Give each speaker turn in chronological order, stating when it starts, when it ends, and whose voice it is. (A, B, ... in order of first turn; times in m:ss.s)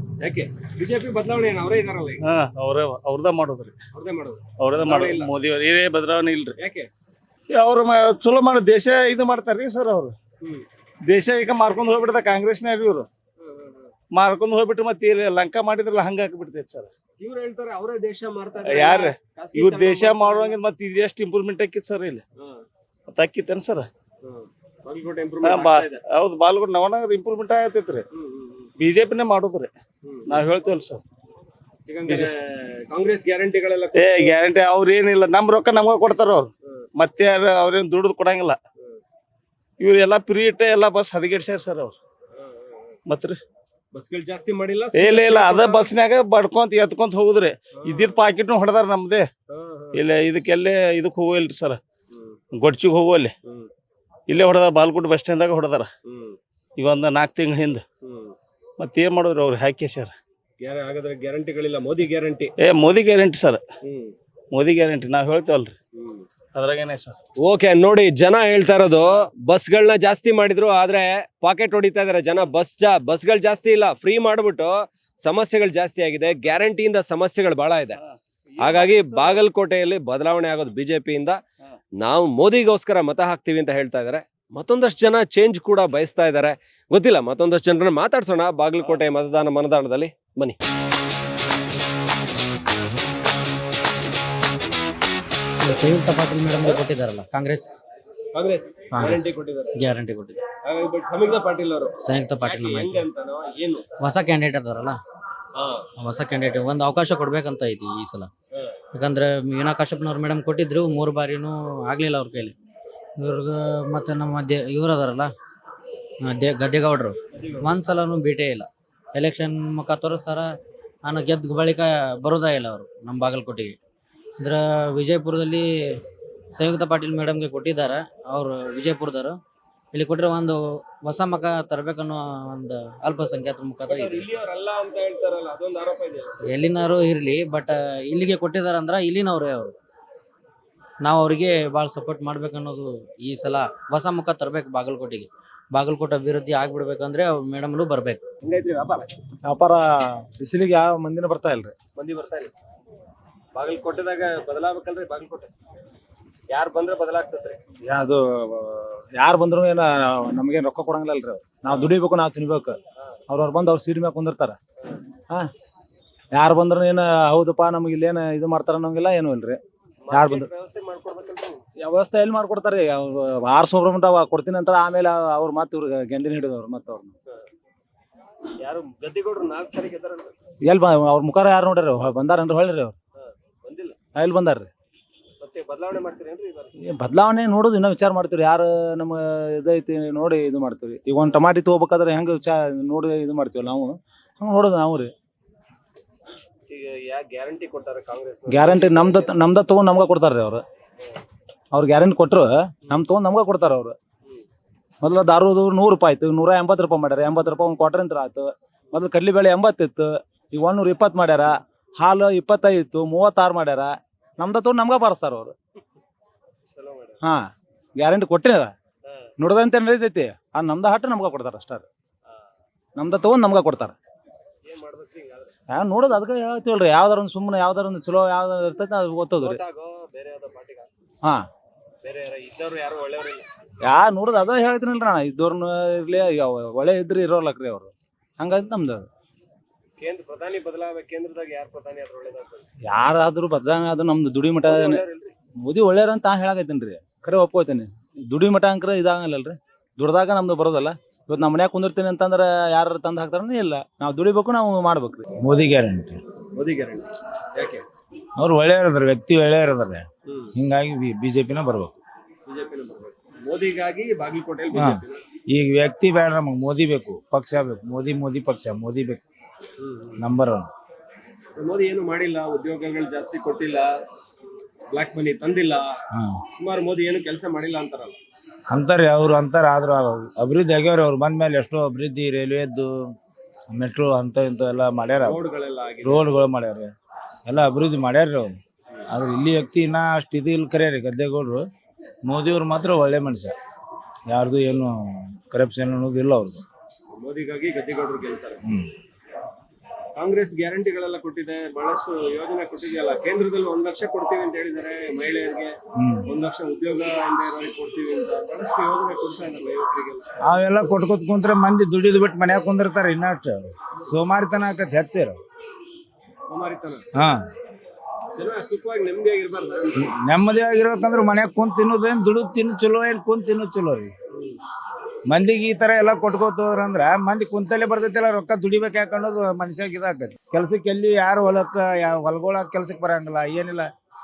0:00.2-0:02.2 A
0:02.2-0:03.8 B
0:03.9-0:05.3 A
0:04.6-0:06.5 B
0:06.6-0:06.9 A
0:07.5-0:10.1 B
0:11.0-0:13.1 B
0:13.4-0:13.9 A
0:14.1-0:16.9 B
0:17.2-0:20.5 A
0:18.6-0:22.2 B
0:22.4-0:22.6 A
0:23.1-0:23.9 B
0:24.2-0:26.0 A
0:25.4-0:28.0 B
0:28.1-0:28.7 A
0:28.8-0:29.7 B
0:30.0-0:30.3 A
0:30.3-0:31.0 B
0:31.9-0:34.3 A
0:33.9-0:38.6 B
0:39.8-0:41.9 B
0:42.3-0:43.0 A
0:43.0-0:43.4 B
0:43.9-0:45.9 A
0:44.9-0:49.3 B
0:47.7-0:48.2 A
0:49.5-0:50.0 A
0:49.9-0:51.8 B
0:52.1-0:52.4 A
0:52.5-0:53.3 B
0:54.3-0:55.9 B
0:56.1-0:56.4 A
0:56.8-0:57.8 B
0:58.0-0:58.3 A
0:58.8-1:00.1 B
1:00.6-1:02.5 A
1:02.6-1:03.6 B
1:03.8-1:04.1 A
1:04.5-1:05.7 B
1:06.0-1:06.2 A
1:06.5-1:07.1 B
1:07.4-1:18.0 A
1:18.6-1:21.4 A
1:22.0-1:30.5 A
1:35.6-1:37.8 C
1:38.3-1:39.7 A
1:38.9-1:40.4 C
1:40.6-1:43.8 A
1:42.0-1:43.0 C
1:44.0-1:45.0 C
1:45.6-1:45.8 A
1:46.0-1:48.3 C
1:48.9-1:52.5 C
1:53.2-1:55.3 C
1:56.2-2:00.5 C
1:57.4-1:57.6 A
2:01.0-2:03.8 C
2:04.4-2:05.6 C
2:06.5-2:09.4 C
2:09.9-2:14.2 C
2:13.9-2:16.3 A
2:16.5-2:19.7 C
2:21.0-2:28.2 C
2:28.4-2:29.1 A
2:29.4-2:29.8 D
2:30.4-2:31.7 D
2:32.0-2:32.5 A
2:33.5-2:35.5 A
2:36.5-2:37.6 A
2:37.9-2:42.8 D
2:43.3-2:44.6 D
2:46.3-2:49.6 D
2:50.0-2:51.6 A
2:50.1-2:50.5 D
2:51.8-2:57.1 D
2:58.6-3:00.3 A
3:00.6-3:02.9 D
3:03.2-3:04.0 A
3:04.1-3:04.7 D
3:05.4-3:06.7 A
3:06.8-3:15.1 D
3:16.7-3:19.3 A
3:18.5-3:20.6 D
3:21.7-3:24.0 D
3:25.0-3:35.5 D
3:36.7-3:37.2 A
3:37.2-3:38.7 D
3:39.4-3:41.8 D
3:43.0-3:43.9 D
3:44.6-3:45.5 A
3:45.7-3:49.6 D
3:49.4-3:50.9 A
3:52.0-3:53.4 A
3:53.8-3:59.0 D
4:00.0-4:02.7 A
4:02.8-4:05.0 D
4:04.7-4:05.3 A
4:05.6-4:15.2 D
4:15.4-4:16.2 E
4:16.6-4:17.8 A
4:18.4-4:20.0 E
4:20.6-4:22.0 E
4:22.5-4:25.2 A
4:24.7-4:29.2 E
4:29.8-4:30.2 A
4:30.2-4:30.7 E
4:31.6-4:33.9 A
4:34.9-4:35.8 A
4:36.1-4:36.4 E
4:36.5-4:38.2 A
4:38.7-4:42.9 E
4:43.7-4:45.4 E
4:45.2-4:46.3 A
4:46.0-4:46.9 E
4:47.4-4:48.6 E
4:49.1-4:51.6 E
4:52.2-4:53.5 E
4:54.3-4:56.6 E
4:57.2-4:58.6 A
5:00.2-5:10.2 A
5:06.0-5:06.2 E
5:10.4-5:15.4 E
5:16.5-5:17.0 A
5:17.1-5:17.4 E
5:18.4-5:20.1 A
5:20.0-5:24.1 E
5:25.3-5:33.9 E